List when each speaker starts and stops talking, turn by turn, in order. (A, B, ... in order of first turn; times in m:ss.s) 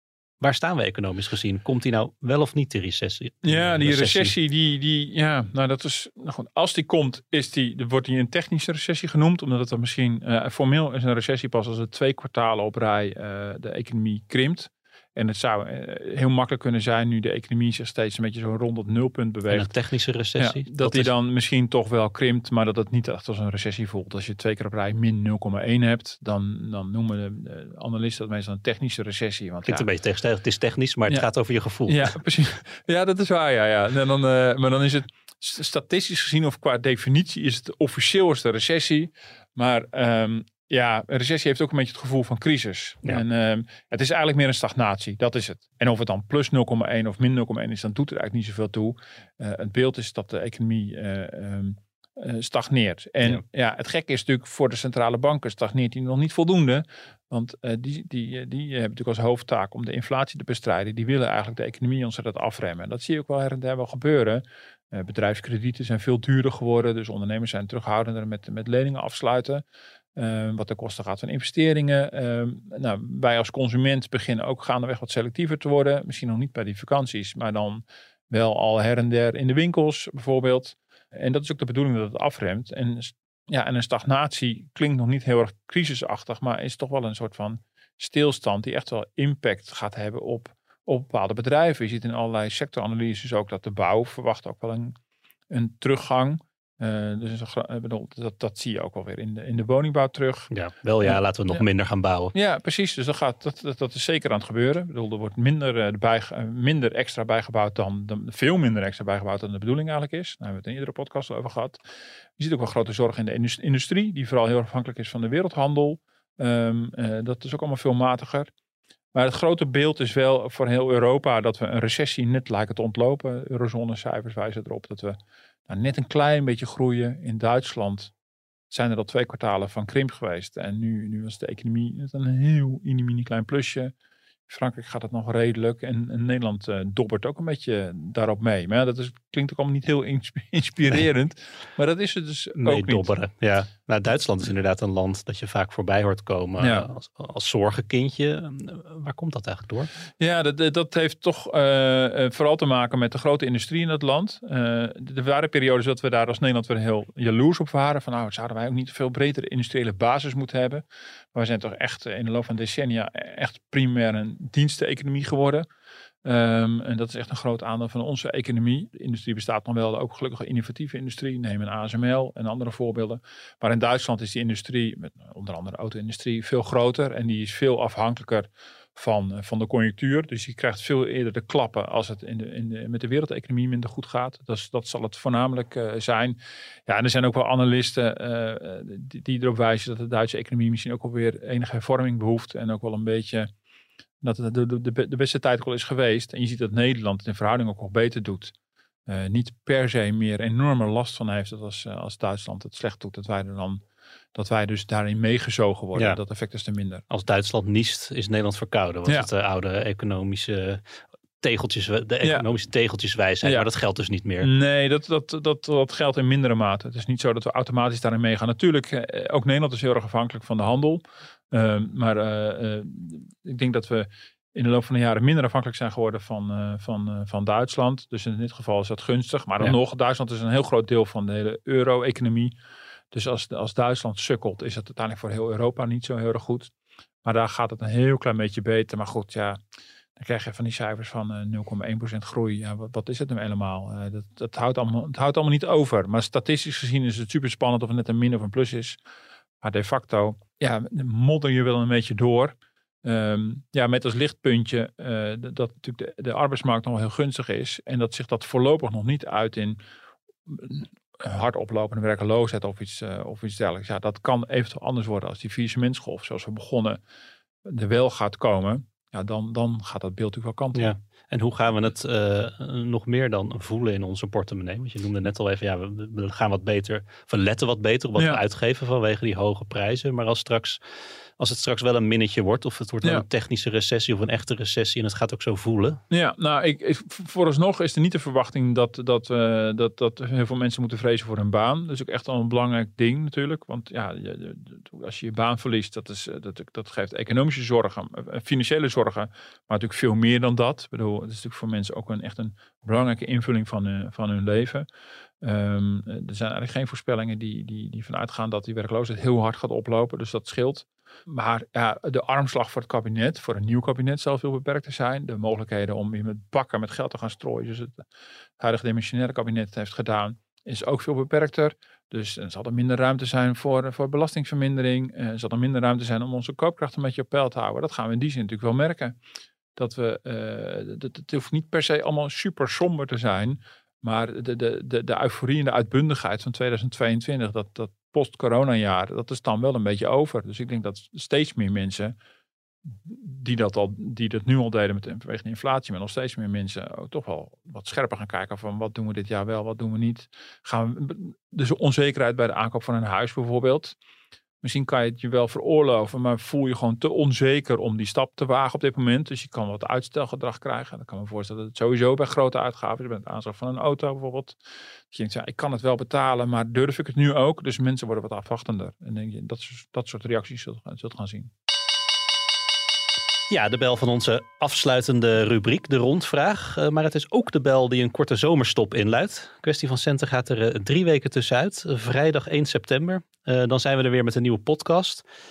0:00.4-0:04.3 A
0:03.4-0:19.7 B
0:19.5-0:21.1 A
0:20.4-0:29.9 B
0:29.6-0:32.1 A
0:31.9-1:09.6 B
1:10.2-1:35.0 B
1:35.5-1:40.5 B
1:40.5-1:42.3 A
1:41.0-1:41.6 B
1:42.3-1:51.8 B
1:52.4-1:58.5 B
1:59.1-2:08.1 B
2:08.7-2:13.9 B
2:14.5-2:23.1 B
2:22.6-2:29.9 A
2:26.6-2:26.9 B
2:30.2-2:45.6 B
2:46.2-3:13.5 B
3:14.2-3:18.5 B
3:19.1-3:23.8 B
3:24.4-3:27.0 B
3:27.1-3:30.8 A
3:31.4-3:34.5 A
3:33.4-3:33.7 B
3:34.4-3:52.6 B
3:53.1-3:56.7 B
3:57.2-3:59.6 B
4:00.2-4:09.0 B
4:09.6-4:19.8 B
4:20.5-4:27.0 B
4:27.6-4:30.9 B
4:30.8-4:40.8 A
4:41.4-4:46.0 A
4:46.1-5:04.9 B
5:05.4-5:18.1 B
5:18.6-5:29.2 B
5:29.8-5:42.1 B
5:42.9-5:54.0 B
5:54.6-6:04.6 B
6:05.1-6:11.5 B
6:13.5-6:25.2 A